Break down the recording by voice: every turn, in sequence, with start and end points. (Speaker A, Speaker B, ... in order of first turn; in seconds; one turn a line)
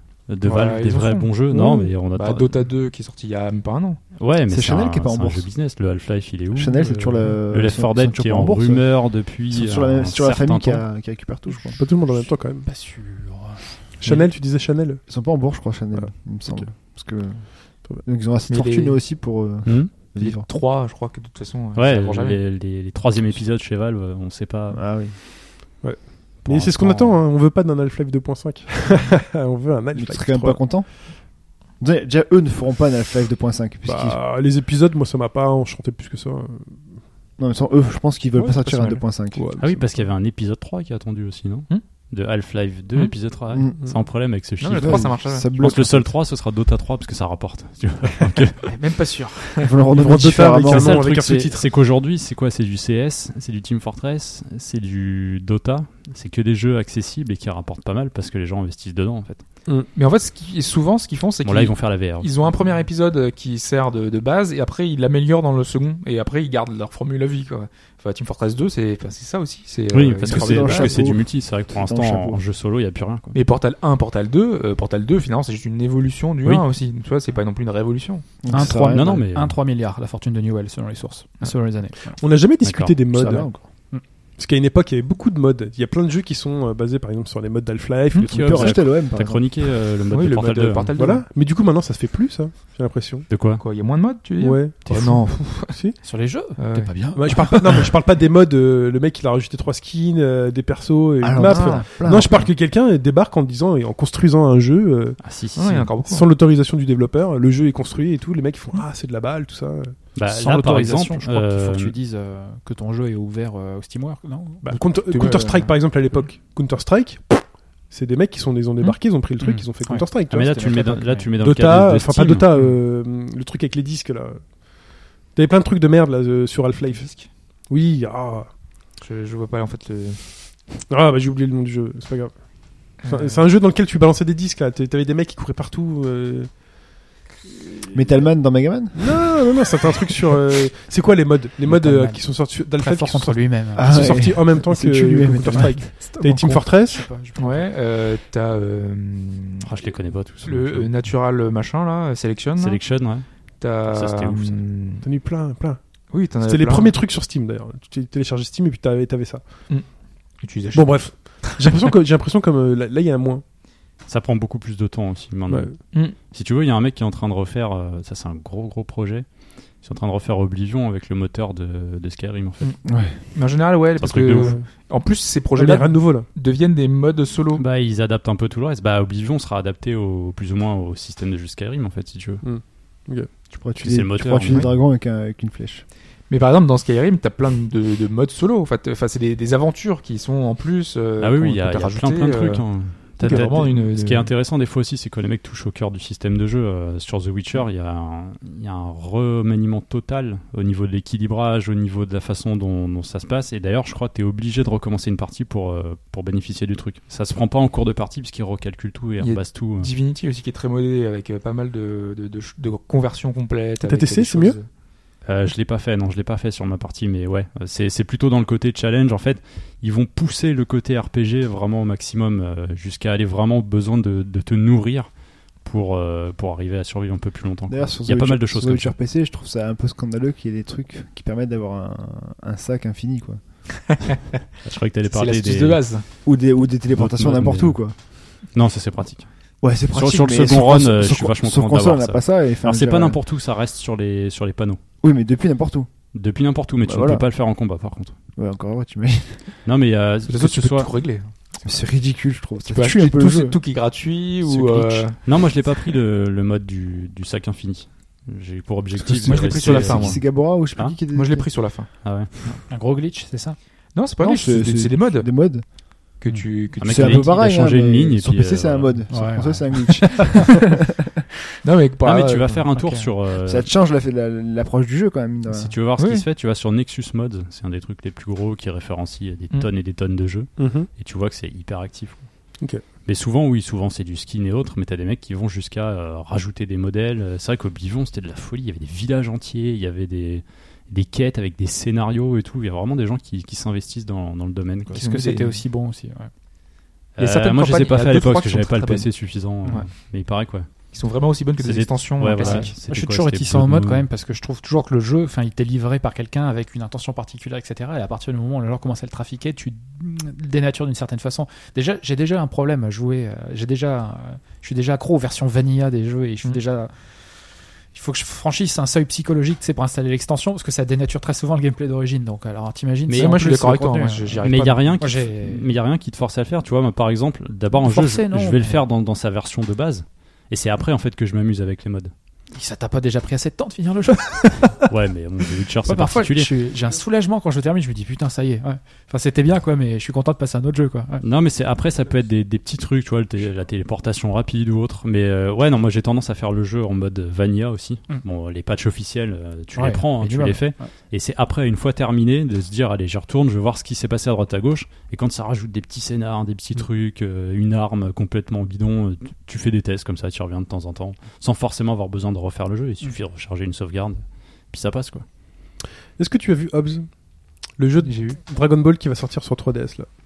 Speaker A: 0.3-2.6
Speaker B: 0.4-1.4
Speaker C: 1.5-1.9
Speaker B: 2.0-4.0
Speaker A: 4.2-10.8
Speaker D: 4.5-5.5
Speaker D: 6.5-11.8
Speaker C: 11.8-12.7
Speaker E: 12.1-13.8
Speaker C: 14.0-15.0
Speaker D: 15.1-20.4
Speaker C: 15.9-16.6
Speaker B: 18.5-19.0
Speaker A: 19.6-19.9
Speaker B: 20.1-22.4
Speaker A: 21.7-24.9
Speaker D: 24.7-25.2
Speaker C: 25.8-30.7
Speaker A: 26.5-27.1
Speaker D: 26.5-27.0
Speaker D: 29.9-34.2
Speaker C: 33.8-36.8
Speaker D: 37.4-39.5
Speaker B: 38.4-39.0
Speaker C: 39.3-39.8
Speaker A: 39.6-48.7
Speaker D: 43.5-43.9
Speaker B: 44.6-45.7
Speaker D: 44.7-46.2
Speaker B: 48.6-49.9
Speaker D: 49.6-51.0
Speaker C: 49.9-51.7
Speaker A: 50.6-59.4
Speaker B: 59.9-71.0
Speaker A: 61.4-62.4
Speaker A: 69.9-73.3
Speaker D: 70.2-72.4
Speaker B: 73.3-78.3
Speaker D: 78.4-79.1
Speaker E: 78.5-82.2
Speaker A: 78.6-79.5
Speaker C: 82.1-88.8
Speaker A: 82.6-83.4
Speaker D: 83.1-83.6
Speaker E: 83.2-84.0
Speaker A: 88.2-90.9
Speaker D: 88.4-89.6
Speaker B: 90.1-91.2
Speaker C: 91.0-93.3
Speaker A: 93.3-93.6
Speaker B: 93.6-95.7
Speaker C: 94.4-96.0
Speaker E: 94.9-97.9
Speaker B: 96.5-97.1
Speaker C: 97.1-105.2
Speaker D: 101.2-102.5
Speaker B: 101.4-102.0
Speaker A: 105.2-105.9
Speaker B: 105.5-106.3
Speaker C: 106.0-110.0
Speaker A: 110.1-111.9
Speaker E: 110.2-114.8
Speaker C: 114.6-120.5
Speaker B: 115.1-115.7
Speaker E: 118.8-121.3
Speaker A: 120.3-122.5
Speaker C: 121.4-128.5
Speaker B: 128.9-130.7
Speaker C: 130.9-136.8
Speaker B: 133.0-133.4
Speaker D: 137.9-139.4
Speaker C: 138.9-147.1
Speaker E: 141.6-144.3
Speaker D: 143.8-146.2
Speaker E: 145.5-147.7
Speaker B: 147.4-149.7
Speaker A: 149.6-150.9
Speaker B: 150.4-155.1
Speaker A: 152.6-153.3
Speaker A: 153.9-154.6
Speaker C: 155.0-155.8
Speaker B: 156.1-156.9
Speaker C: 156.4-159.7
Speaker B: 159.7-161.9
Speaker C: 160.7-163.4
Speaker A: 164.1-169.3
Speaker C: 165.5-165.7
Speaker A: 169.8-172.7
Speaker B: 172.6-177.6
Speaker D: 172.8-173.2
Speaker A: 174.0-174.6
Speaker C: 174.2-174.7
Speaker C: 175.5-176.3
Speaker A: 177.5-182.4
Speaker C: 182.4-183.3
Speaker D: 183.5-185.8
Speaker A: 183.8-184.7
Speaker B: 186.3-194.3
Speaker A: 191.2-209.9
Speaker B: 209.2-214.7
Speaker C: 213.8-214.6
Speaker A: 215.2-228.9
Speaker D: 227.7-233.9
Speaker A: 234.6-236.0
Speaker B: 235.1-236.0
Speaker D: 236.2-237.9
Speaker A: 236.9-244.8
Speaker D: 239.6-243.2
Speaker D: 245.0-245.9
Speaker A: 246.1-248.1
Speaker D: 246.8-247.2
Speaker D: 248.3-249.4
Speaker A: 249.6-250.9
Speaker B: 250.3-251.8
Speaker D: 251.6-253.6
Speaker B: 252.7-255.9
Speaker D: 254.4-254.8
Speaker A: 255.2-261.0
Speaker D: 259.1-261.5
Speaker B: 259.2-260.2
Speaker B: 261.1-262.6
Speaker A: 262.0-262.3
Speaker E: 262.7-263.6
Speaker B: 263.9-265.3
Speaker D: 264.2-265.6
Speaker B: 266.2-267.4
Speaker A: 266.8-269.1
Speaker D: 266.8-270.7
Speaker E: 269.1-270.3
Speaker B: 271.6-272.6
Speaker A: 272.0-273.7
Speaker E: 272.7-273.1
Speaker D: 273.4-275.8
Speaker A: 275.5-282.3
Speaker B: 276.0-276.2
Speaker C: 280.6-280.9
Speaker A: 283.0-295.2
Speaker E: 294.9-296.3
Speaker B: 295.0-295.6
Speaker A: 297.1-300.9
Speaker B: 297.2-299.9
Speaker B: 300.9-302.7
Speaker A: 301.6-304.1
Speaker E: 302.4-325.7
Speaker A: 323.1-323.4
Speaker B: 323.1-325.0
Speaker A: 324.4-332.1
Speaker E: 327.7-328.8
Speaker E: 332.5-334.9
Speaker A: 334.8-336.5
Speaker E: 335.8-341.2
Speaker A: 341.2-365.2
Speaker E: 349.8-350.9
Speaker C: 366.1-370.1
Speaker B: 368.0-368.4